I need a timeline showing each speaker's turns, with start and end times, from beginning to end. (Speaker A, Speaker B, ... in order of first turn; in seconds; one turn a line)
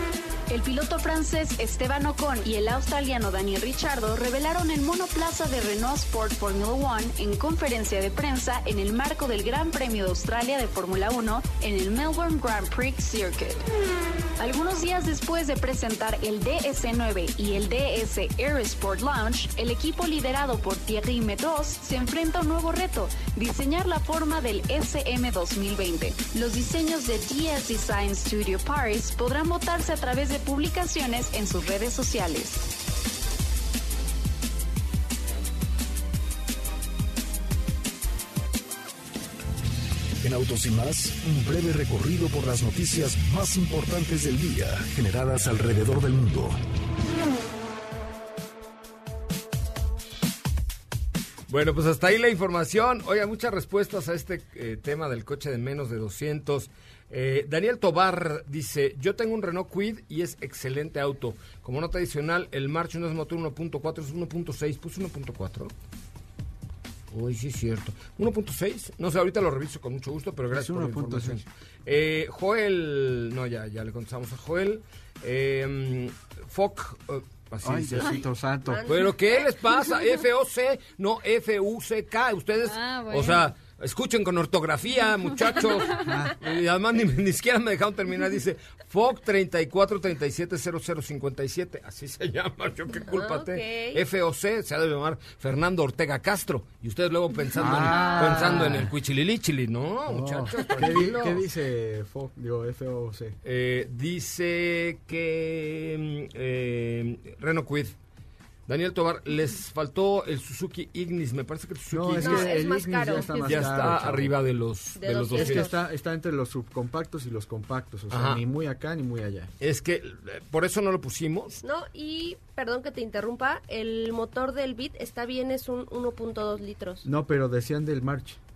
Speaker A: 0.5-13.6
Speaker A: 14.4-32.7
Speaker B: 40.2-46.6
Speaker C: 51.5-65.7
Speaker C: 67.1-78.2
Speaker D: 70.5-71.5
Speaker D: 77.6-78.9
Speaker E: 78.7-79.8
Speaker C: 78.9-101.4
Speaker A: 82.7-83.5
Speaker D: 86.0-86.3
Speaker E: 93.1-94.0
Speaker D: 97.5-98.9
Speaker D: 100.1-103.4
Speaker C: 103.4-108.0
Speaker C: 108.7-112.5
Speaker D: 111.9-114.4
Speaker E: 112.2-114.1
Speaker C: 113.4-115.7
Speaker E: 115.0-115.8
Speaker D: 115.3-119.5
Speaker C: 118.1-118.4
Speaker C: 119.6-121.6
Speaker E: 121.6-127.1
Speaker D: 127.0-128.4